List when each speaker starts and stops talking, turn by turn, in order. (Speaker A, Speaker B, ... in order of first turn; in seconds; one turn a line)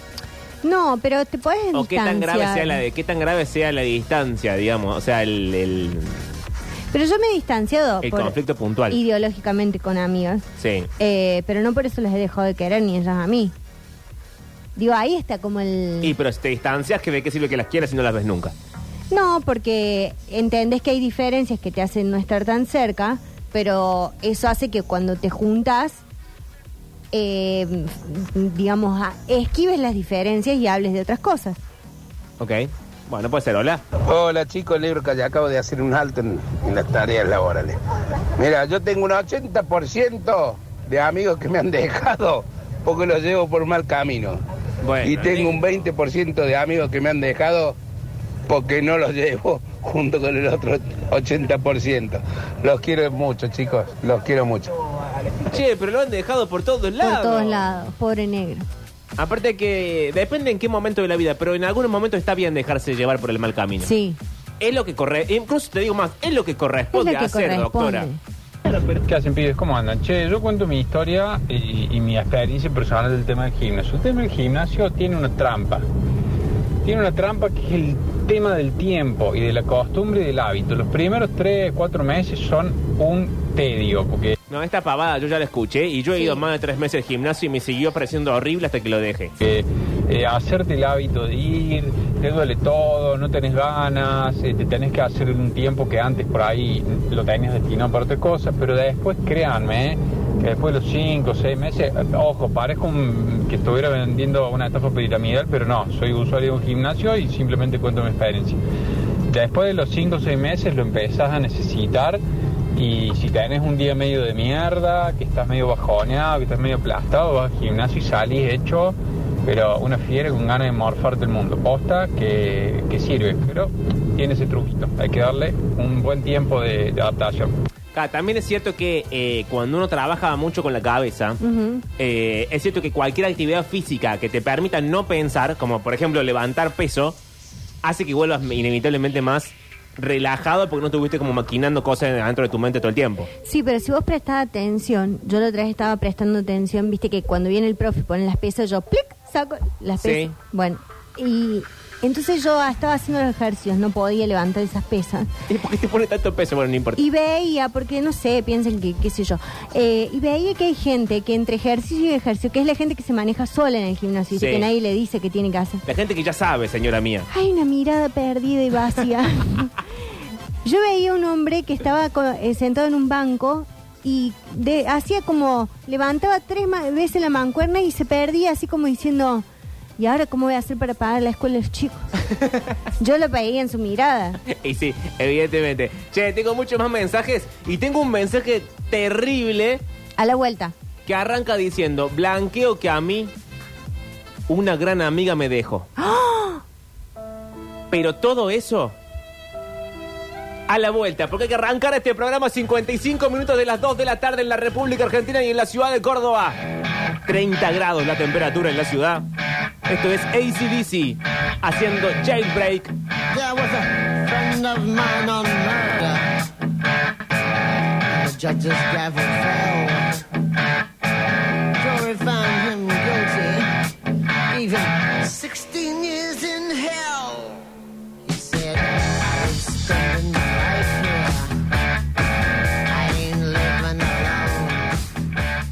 Speaker A: 0.6-2.8
Speaker B: 1.7-6.2
Speaker A: 6.9-10.5
Speaker B: 8.0-9.0
Speaker B: 10.6-10.9
Speaker A: 11.0-13.5
Speaker A: 14.8-16.1
Speaker B: 16.0-18.5
Speaker A: 19.1-26.0
Speaker A: 27.1-31.6
Speaker B: 32.4-33.8
Speaker C: 34.0-37.8
Speaker C: 38.4-44.4
Speaker B: 44.8-45.6
Speaker C: 45.0-47.8
Speaker C: 48.5-54.7
Speaker B: 55.5-57.7
Speaker A: 57.0-58.6
Speaker B: 59.2-63.9
Speaker A: 63.8-64.2
Speaker B: 64.6-68.1
Speaker A: 66.9-68.2
Speaker D: 68.7-75.8
Speaker D: 76.8-84.3
Speaker B: 84.5-89.3
Speaker D: 89.4-108.6
Speaker D: 109.3-112.2
Speaker D: 112.7-127.5
Speaker B: 127.9-131.4
Speaker A: 131.4-131.8
Speaker B: 132.0-137.2
Speaker B: 137.8-143.3
Speaker A: 143.4-155.3
Speaker B: 150.0-150.3
Speaker B: 155.5-157.0
Speaker A: 156.9-165.8
Speaker B: 164.3-164.7
Speaker B: 165.8-167.3
Speaker A: 167.3-169.7
Speaker A: 170.6-179.4
Speaker A: 180.0-182.1
Speaker B: 182.3-182.7
Speaker A: 183.0-184.4
Speaker B: 184.4-189.8
Speaker A: 190.2-190.7
Speaker B: 191.0-193.3
Speaker B: 194.5-195.9
Speaker A: 196.0-196.6
Speaker B: 197.9-198.9
Speaker B: 200.7-206.6
Speaker B: 207.2-209.3
Speaker B: 209.9-212.9
Speaker E: 213.3-216.4
Speaker E: 218.1-220.2
Speaker E: 221.8-223.8
Speaker E: 224.5-227.6
Speaker E: 228.2-231.5
Speaker E: 232.9-235.1